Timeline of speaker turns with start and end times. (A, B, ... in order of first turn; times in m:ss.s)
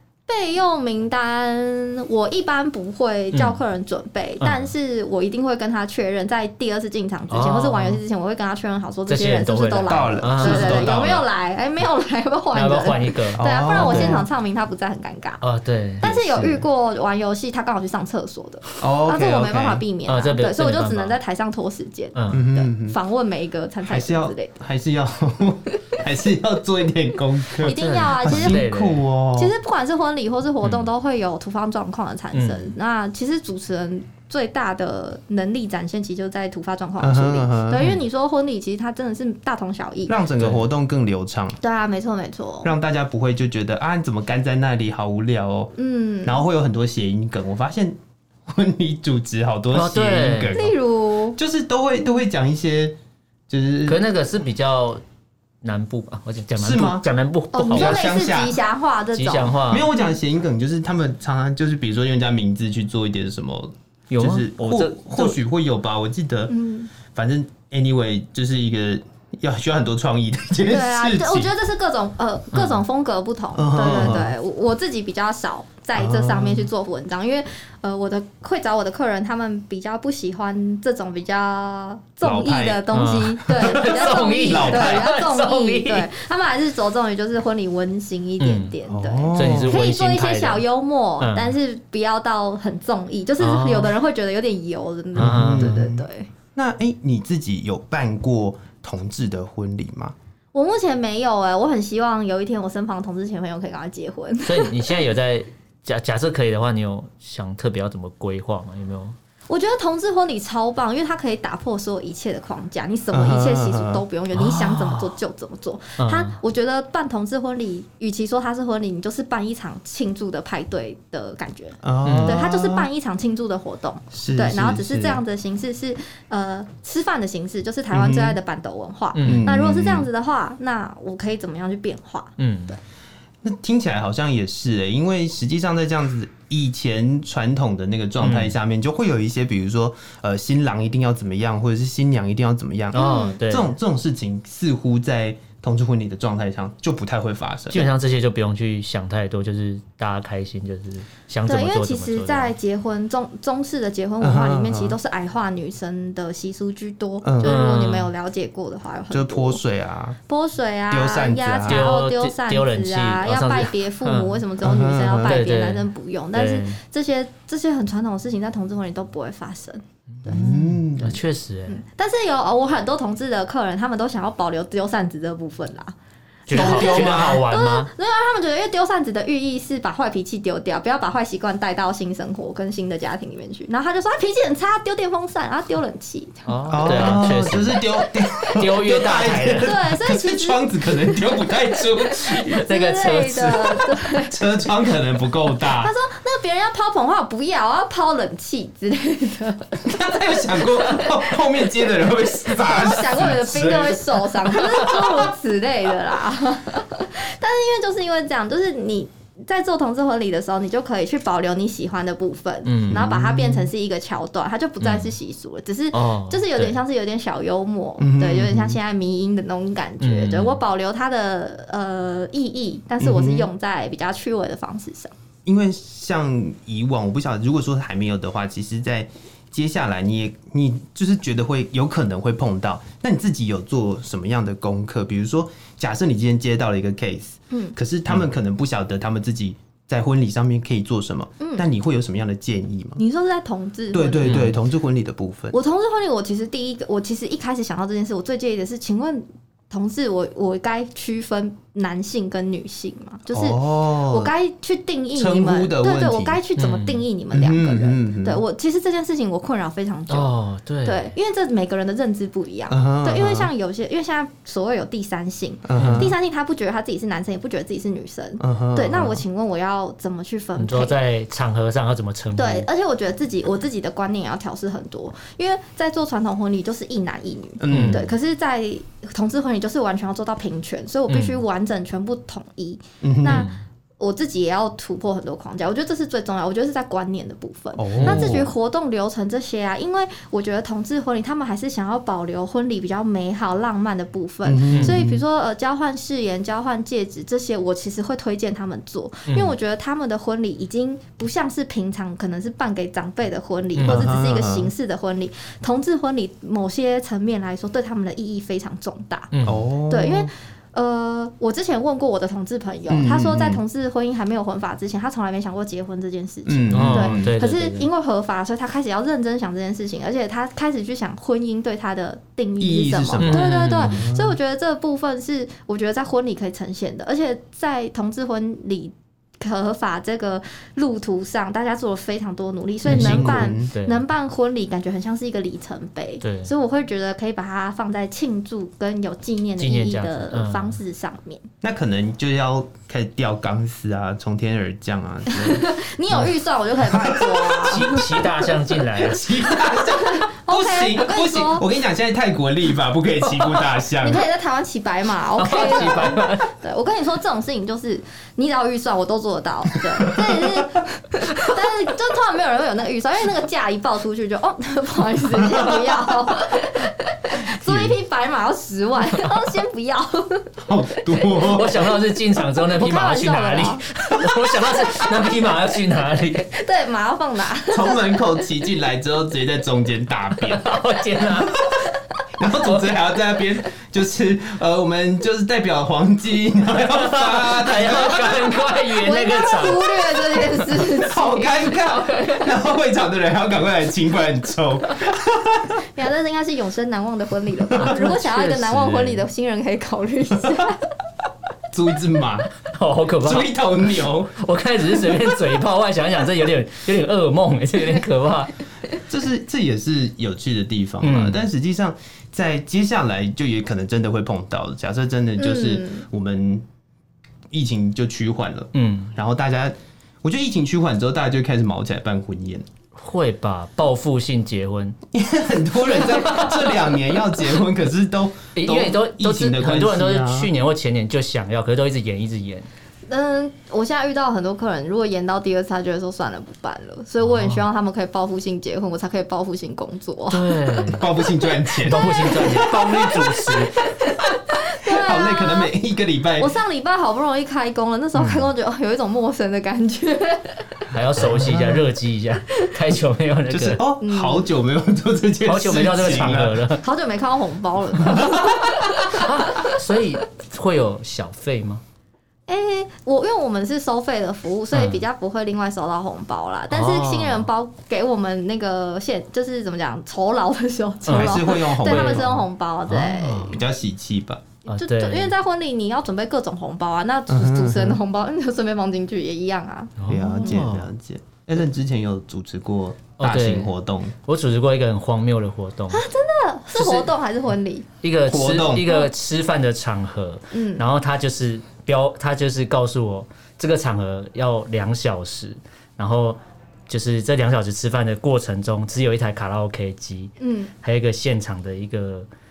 0:00.3-0:15.4 A
0:03.3-0:03.6 B
0:04.4-0:04.7 B
0:07.3-0:08.0 B
0:09.1-0:11.1 B
0:09.9-0:11.2 C
0:12.5-0:14.2 B
0:13.4-0:14.3 C
0:15.4-0:16.6 B
0:16.0-0:24.5 A
0:18.8-0:19.8 C
0:20.1-0:21.2 B
0:22.2-0:22.4 B
0:22.3-0:23.0 C
0:23.8-0:29.5 C
0:27.6-0:28.7 A
0:27.6-0:29.1 B
0:29.4-0:40.2 A
0:30.6-0:30.9 B
0:32.3-0:32.7 B
0:37.0-0:38.0 C
0:40.1-0:41.6 C
0:41.6-0:42.7 A
0:42.6-0:45.7 C
0:45.8-0:46.4 A
0:46.2-0:48.0 C
0:48.5-0:50.8 C
0:49.7-0:50.6 B
0:50.5-0:51.4 A
0:51.4-0:53.0 C
0:53.5-0:54.0 C
0:53.9-0:55.0 B
0:55.6-0:58.0 B
0:56.6-0:57.1 C
0:57.5-0:59.6 A
0:57.7-0:58.6 C
0:59.1-0:59.9 B
0:59.7-1:06.5 C
1:04.1-1:05.4 B
1:06.5-1:06.9 A
1:07.0-1:11.5 C
1:10.7-1:36.3 A
1:12.5-1:12.8 B
1:13.6-1:14.3 C
1:16.0-1:16.7 C
1:22.2-1:22.9 C
1:22.9-1:26.1 B
1:23.6-1:25.1 C
1:28.4-1:28.7 B
1:28.9-1:29.8 C
1:29.3-1:30.6 B
1:31.2-1:31.6 B
1:33.4-1:34.0 B
1:35.2-1:35.8 B
1:35.2-1:40.2 C
1:40.5-1:45.0 A
1:44.4-1:49.2 B
1:49.5-2:12.8 A
1:53.1-1:54.0 C
1:54.3-1:55.1 B
1:56.0-1:56.4 B
2:01.8-2:02.9 C
2:02.0-2:02.4 B
2:04.1-2:05.2 C
2:07.9-2:08.4 C
2:09.2-2:09.5 B
2:09.2-2:10.1 C
2:12.4-2:12.8 B
2:13.4-2:27.9 C
2:18.2-2:18.5 B
2:22.9-2:23.4 A
2:22.9-2:23.8 B
2:27.7-2:32.5 B
2:31.5-2:39.6 A
2:34.2-2:35.0 C
2:37.2-2:37.6 C
2:37.4-2:38.1 B
2:39.1-2:40.2 C
2:40.3-2:50.4 A
2:40.9-2:41.9 C
2:41.7-2:44.4 B
2:44.6-2:45.4 C
2:45.2-2:46.8 B
2:50.2-2:51.8 B
2:50.3-2:51.2 C
2:51.7-2:55.9 A
2:56.5-2:57.9 B
2:56.5-3:07.2 A
2:56.5-2:57.4 C
3:06.5-3:07.8 B
3:06.7-3:12.6 C
3:08.4-3:09.8 B
3:09.6-3:11.5 A
3:12.2-3:14.3 A
3:12.5-3:13.9 B
3:14.2-3:15.9 C
3:15.8-3:21.4 A
3:19.8-3:24.9 C
3:22.4-3:45.1 A
3:32.6-3:33.0 B
3:32.9-3:33.7 C
3:34.8-3:35.1 B
3:35.9-3:36.8 B
3:38.0-3:38.8 C
3:40.0-3:40.6 B
3:43.0-3:43.5 C
3:45.5-4:03.0 C
4:03.0-4:04.5 A
4:03.9-4:05.6 C
4:04.2-4:04.6 B
4:05.5-4:20.3 A
4:13.3-4:14.3 C
4:15.2-4:16.4 C
4:16.6-4:17.1 B
4:17.3-4:18.4 C
4:20.1-4:21.1 B
4:20.8-4:31.0 A
4:22.7-4:23.5 C
4:25.6-4:26.1 C
4:25.8-4:26.1 B
4:28.4-4:29.2 C
4:30.6-4:32.7 B
4:32.4-5:09.3 A
4:37.6-4:38.1 C
4:37.7-4:38.1 B
4:41.1-4:41.4 B
4:43.0-4:43.5 C
4:43.2-4:43.6 B
4:47.8-4:48.5 C
4:48.0-4:48.4 B
4:54.4-4:55.2 C
4:54.7-4:55.0 B
4:59.3-4:59.5 B
5:03.8-5:04.1 B
5:03.8-5:04.7 C
5:09.3-5:09.6 B
5:09.4-5:10.3 C
5:09.9-5:41.4 A
5:12.9-5:13.6 C
5:16.5-5:17.4 C
5:16.7-5:17.9 B
5:22.6-5:24.4 C
5:23.2-5:24.1 B
5:32.9-5:33.7 C
5:32.9-5:34.0 B
5:36.2-5:36.5 B
5:39.6-5:40.8 B
5:41.6-5:45.7 C
5:45.3-5:48.2 A
5:46.9-5:48.2 C
5:47.6-5:49.3 B
5:48.9-5:54.3 C
5:50.0-5:51.7 A
5:54.0-6:10.5 A
5:55.4-5:56.5 B
5:55.6-5:56.2 C
6:00.0-6:00.4 C
6:05.5-6:06.0 C
6:10.6-6:11.8 C
6:11.4-6:16.5 B
6:12.6-6:15.0 A
6:16.4-6:18.4 A
6:17.7-6:20.8 C
6:20.4-6:21.6 B
6:22.4-6:28.7 C
6:22.6-6:22.9 B
6:26.8-6:30.8 B
6:29.0-6:31.6 A
6:31.0-6:35.8 C
6:31.8-6:32.5 B
6:35.9-6:40.8 A
6:37.8-6:39.3 B
6:41.7-6:42.5 C
6:42.6-6:48.5 B
6:43.2-6:44.4 C
6:49.1-6:56.6 C
6:51.0-6:51.4 B
6:55.4-6:56.0 A
6:57.5-7:02.7 C
6:58.8-6:59.1 B
7:03.0-7:05.0 B
7:05.1-7:10.5 C
7:06.0-7:06.8 B
7:08.6-7:12.7 B
7:13.1-7:20.5 A
7:17.2-7:17.6 B
7:20.3-7:21.0 B
7:20.9-7:23.4 C
7:21.8-7:23.8 B
7:21.9-7:23.1 A
7:23.7-7:25.7 A
7:24.8-7:26.6 C
7:26.4-7:30.8 A
7:28.2-7:28.4 B
7:30.9-7:33.8 B
7:31.2-7:31.8 C
7:33.5-7:36.6 C
7:34.0-7:34.5 A
7:35.5-7:36.8 B
7:36.8-7:39.8 A
7:38.0-7:38.9 C
7:39.0-7:41.8 B
7:42.5-7:53.6 A
7:44.7-7:45.0 B
7:46.7-7:47.5 B
7:51.1-7:53.6 B
7:51.1-7:52.4 C
7:53.4-7:54.4 C
7:54.7-8:00.5 A
7:54.7-7:55.3 B
7:57.3-7:58.0 C
8:00.0-8:00.9 B
8:00.1-8:04.2 C
8:03.2-8:03.7 B
8:04.3-8:06.0 B
8:05.9-8:07.9 A
8:06.8-8:07.1 B
8:08.0-8:16.4 B
8:08.3-8:08.9 C
8:10.5-8:10.8 A
8:16.9-8:22.3 B
8:20.4-8:20.7 A